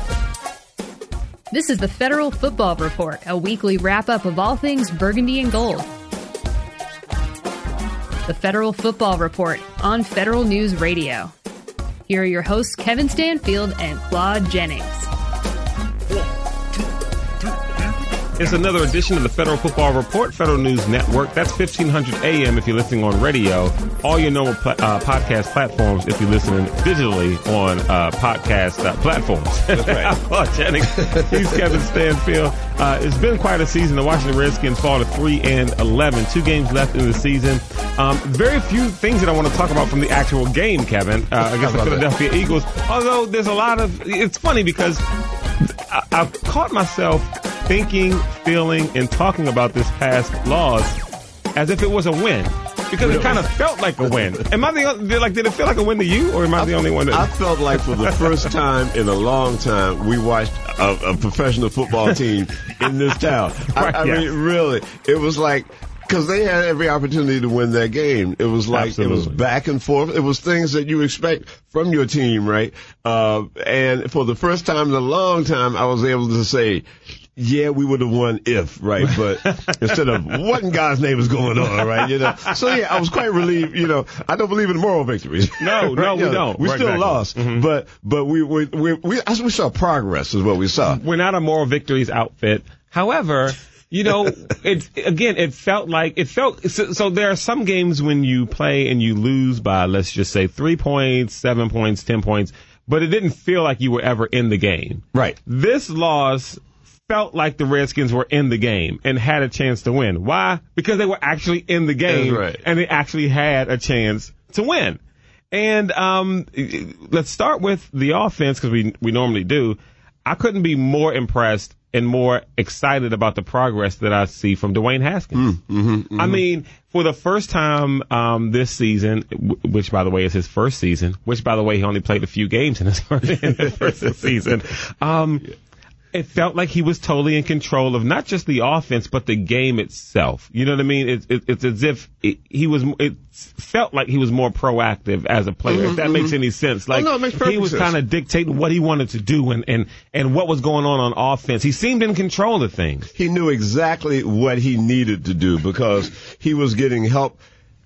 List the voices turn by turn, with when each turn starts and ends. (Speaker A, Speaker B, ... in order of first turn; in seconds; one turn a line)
Speaker A: 1.5-5.9
Speaker A: 8.2-11.3
Speaker A: 12.1-15.1
Speaker B: 18.4-45.0
Speaker C: 29.7-30.1
Speaker C: 31.0-31.6
Speaker C: 41.6-42.0
Speaker B: 45.6-51.0
Speaker B: 51.5-58.4
Speaker C: 53.0-53.4
Speaker C: 54.0-54.5
Speaker C: 56.6-91.0
Speaker B: 63.8-64.3
Speaker B: 68.7-69.4
Speaker B: 79.0-80.4
Speaker B: 81.8-82.8
Speaker B: 85.6-87.6
Speaker B: 90.9-115.0
Speaker C: 112.1-112.6
Speaker B: 115.5-125.5
Speaker C: 125.3-126.4
Speaker B: 126.1-135.5
Speaker B: 136.1-153.1
Speaker C: 145.7-146.3
Speaker C: 146.9-147.9
Speaker C: 153.1-157.4